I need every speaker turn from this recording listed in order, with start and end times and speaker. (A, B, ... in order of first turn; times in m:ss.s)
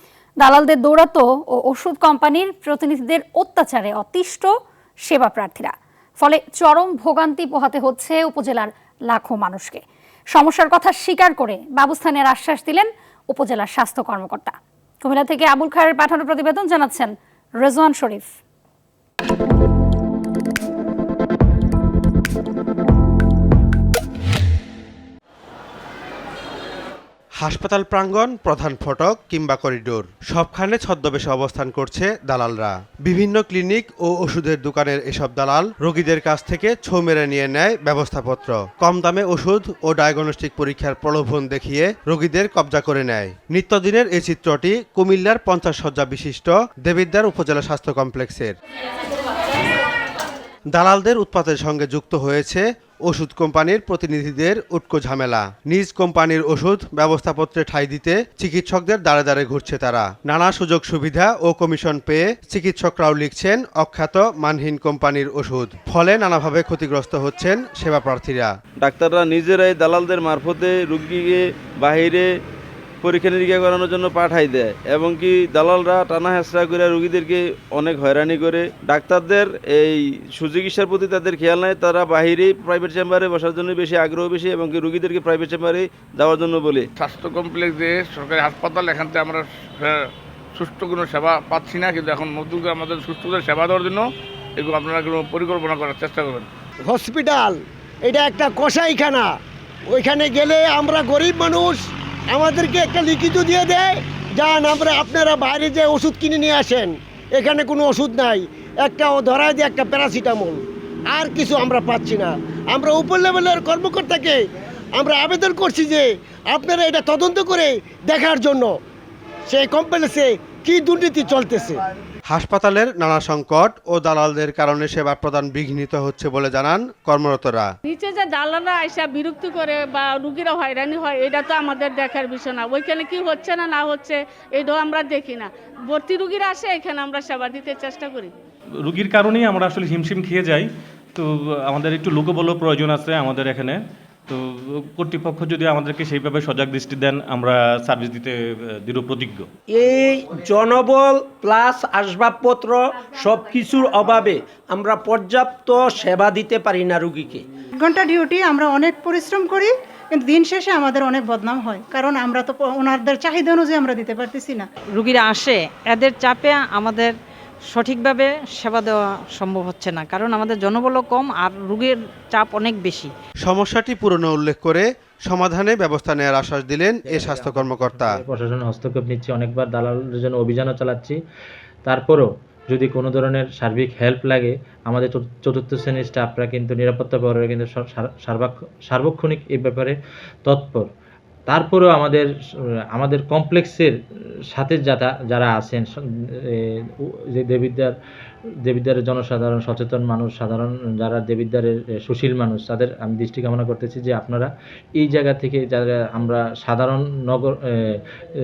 0:00.4-0:04.5 A
0:05.1-0:09.8 A
0:10.3-0:18.3 A
0:27.4-0:48.5 B
0:50.7-1:08.5 B
1:08.8-1:12.3 C
1:13.0-1:26.9 C
1:27.0-1:30.0 D
1:30.6-1:34.0 D
1:34.6-1:36.4 D
1:36.9-1:39.3 E
1:39.9-1:41.8 E
1:42.3-1:54.4 E
1:55.0-1:58.7 E
1:59.5-2:01.8 E
2:02.3-2:07.7 B
2:07.8-2:18.3 F
2:18.8-2:29.5 G
2:29.7-2:37.4 H
2:37.8-2:44.6 I
2:45.0-2:47.2 J
2:47.7-2:53.1 J
2:53.4-2:58.2 B
2:57.1-3:01.2 K
3:01.8-3:10.9 K
3:11.5-3:12.3 K
3:12.9-3:13.9 K
3:14.5-3:15.9 K
3:17.3-3:17.9 K
3:18.6-3:28.0 K